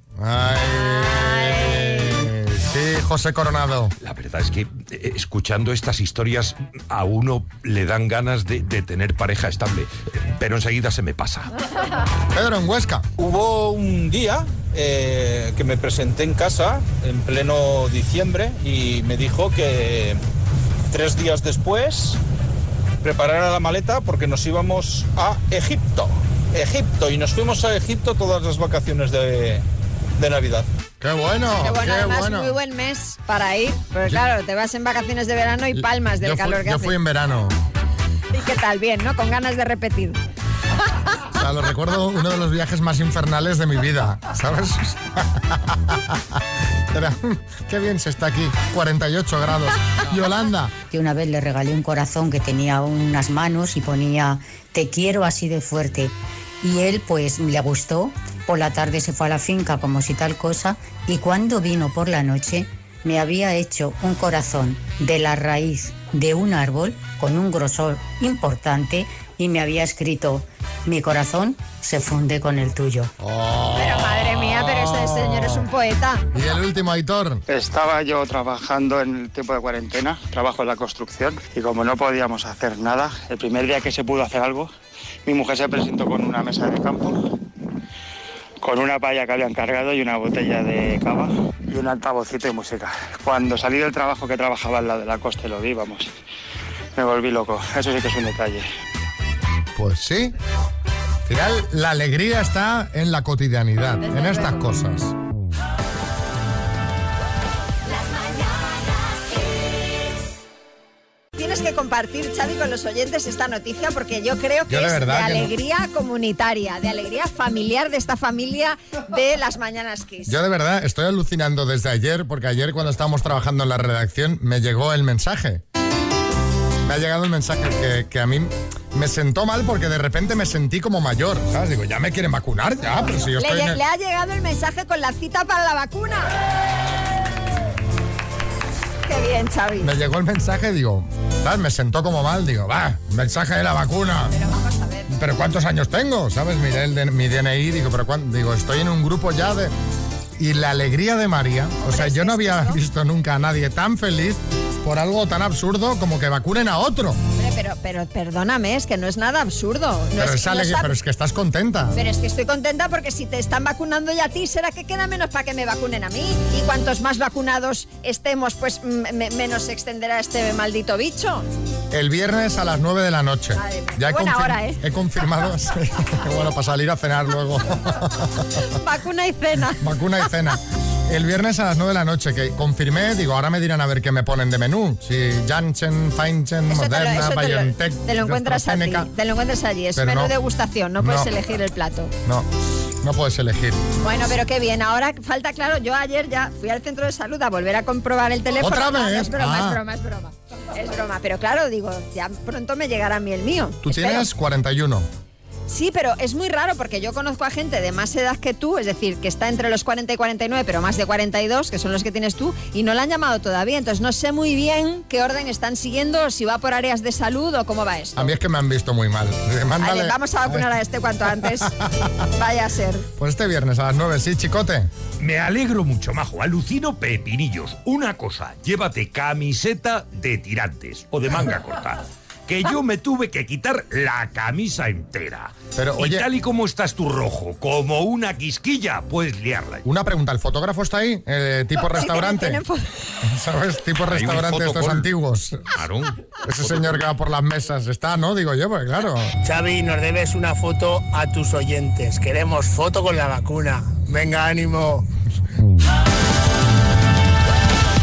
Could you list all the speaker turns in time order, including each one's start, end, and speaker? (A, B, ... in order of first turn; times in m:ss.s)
0:00.2-0:03.9 A
0:01.0-0:01.4 B
0:04.0-0:11.5 C
0:12.3-0:13.0 A
0:13.2-0:20.2 D
0:20.9-0:22.2 D
0:23.0-0:29.6 D
0:30.2-0:30.7 D
0:31.0-0:32.6 A
0:31.6-0:37.0 B
0:35.7-0:37.6 A
0:38.3-0:40.2 B
0:41.3-0:46.4 A
0:46.9-0:50.8 A
0:50.9-1:13.1 E
1:13.2-1:15.7 A
1:13.8-1:16.3 B
1:16.3-1:17.4 A
1:17.5-1:24.7 F
1:25.3-1:27.2 F
1:28.6-1:36.1 F
1:37.0-1:38.7 F
1:39.8-1:40.3 A
1:41.3-1:45.2 A
1:44.1-1:44.7 B
1:51.4-2:00.4 B
1:54.7-1:55.5 A
2:00.3-2:05.6 A
2:06.8-2:13.8 A
2:13.4-2:16.3 B
2:19.1-2:19.9 B
2:19.8-2:24.4 A
2:24.3-2:25.1 B
2:25.1-2:29.7 A
2:30.4-2:37.2 A
2:31.8-2:32.8 B
2:37.4-2:40.9 B
2:40.2-2:42.0 A
2:41.9-2:51.5 B
2:51.9-2:58.5 A
2:53.6-2:54.8 B
2:58.6-2:59.8 B
2:59.8-3:09.1 A
3:06.7-3:12.1 B
3:10.0-3:10.4 A
3:11.0-3:11.3 A
3:13.0-3:13.9 A
3:14.0-3:24.3 B
3:18.6-3:19.8 A
3:23.8-3:25.1 A
3:25.7-3:38.4 B
3:38.2-3:40.7 A
3:39.8-3:41.7 B
3:41.3-3:42.1 A
3:42.3-3:43.1 B
3:43.2-3:44.9 A
3:45.2-3:59.8 C
3:55.8-3:56.3 A
3:59.8-4:02.6 A
4:01.9-4:02.9 B
4:03.2-4:05.7 A
4:04.1-4:05.1 C
4:05.7-4:07.0 C
4:06.4-4:09.4 A
4:09.5-4:14.9 G